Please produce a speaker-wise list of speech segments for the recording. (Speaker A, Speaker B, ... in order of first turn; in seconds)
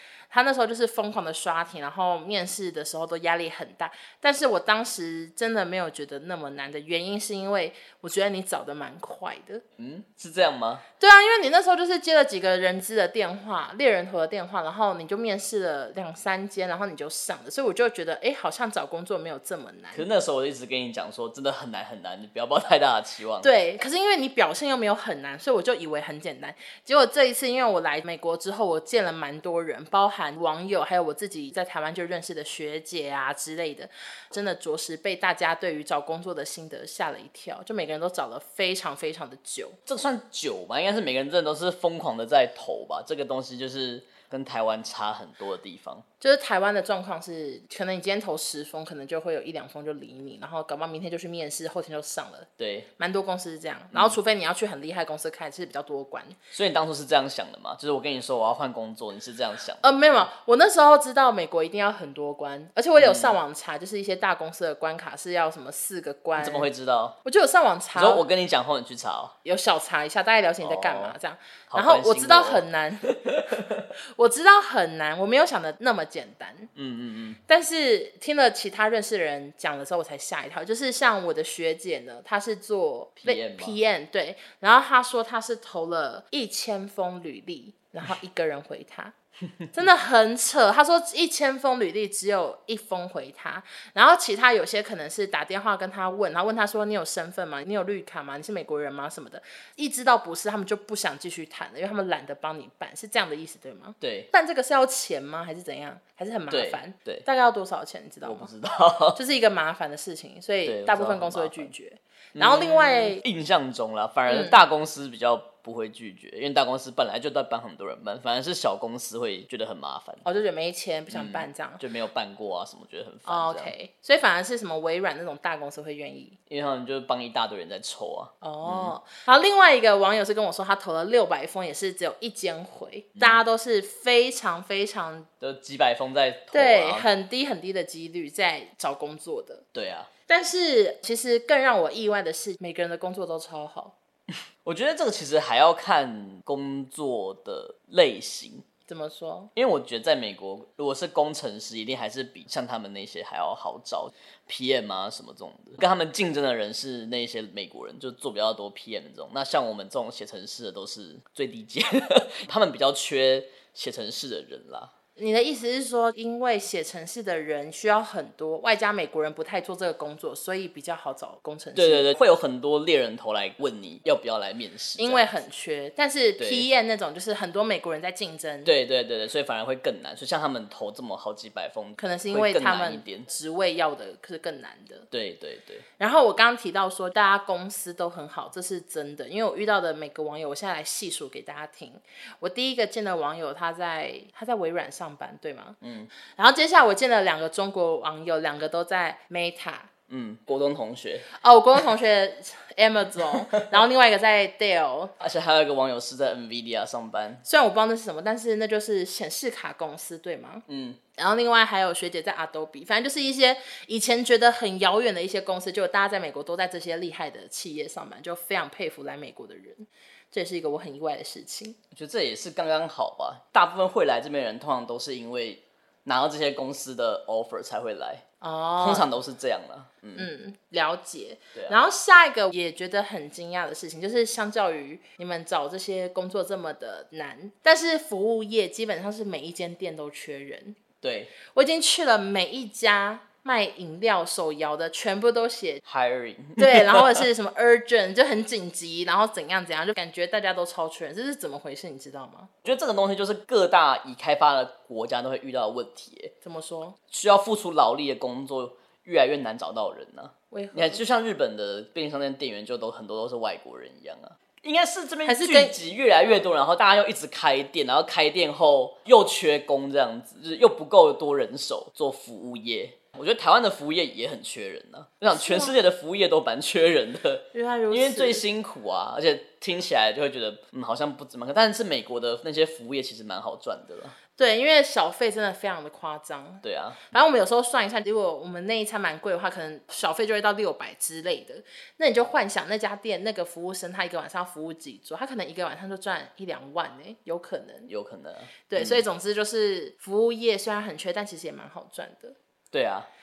Speaker A: 0.3-9.6, 11.0-20.1, 23.4-39.8, 46.2-56.4, 59.8-66.7, 67.2-68.2, 69.4-76.7, 77.5-89.1, 89.7-108.5, 109.2-113.2, 114.3-114.6, 120.2-121.8, 123.2-126.4, 128.4-135.3, 136.5-139.7, 140.3-143.9, 148.9-149.5, 165.2-172.1, 175.0-178.7, 182.0-185.1, 186.0-195.8, 196.4-199.9, 201.4-205.1, 207.4-210.7, 211.2-221.8, 228.4-229.1, 230.2-240.8, 241.5-245.8, 246.6-252.5, 256.4-257.0, 260.5-261.0, 265.3-265.8, 275.3-275.7, 277.5-278.4, 284.4-297.9, 298.7-302.4
Speaker B: 9.8-10.8, 19.9-23.5, 39.9-46.0, 52.6-52.9, 56.5-59.9, 63.0-63.4, 66.4-67.2, 68.0-69.3, 70.6-71.2, 71.7-72.6, 73.2-73.9, 76.8-77.4, 83.2-83.8, 104.0-104.3, 106.5-107.2, 108.2-109.2, 110.7-111.7, 112.3-120.2, 121.1-123.7, 126.5-128.9, 135.4-137.1, 139.7-140.1, 144.6-148.6, 149.6-164.9, 171.8-175.3, 176.4-176.7, 178.7-183.3, 185.1-185.8, 195.8-196.1, 200.1-201.3, 203.3-203.7, 205.2-207.4, 210.7-211.0, 221.9-228.2, 228.8-230.3, 241.0-241.3, 245.8-247.3, 252.6-256.3, 257.1-284.2, 286.6-287.0, 297.9-299.1, 302.7-303.1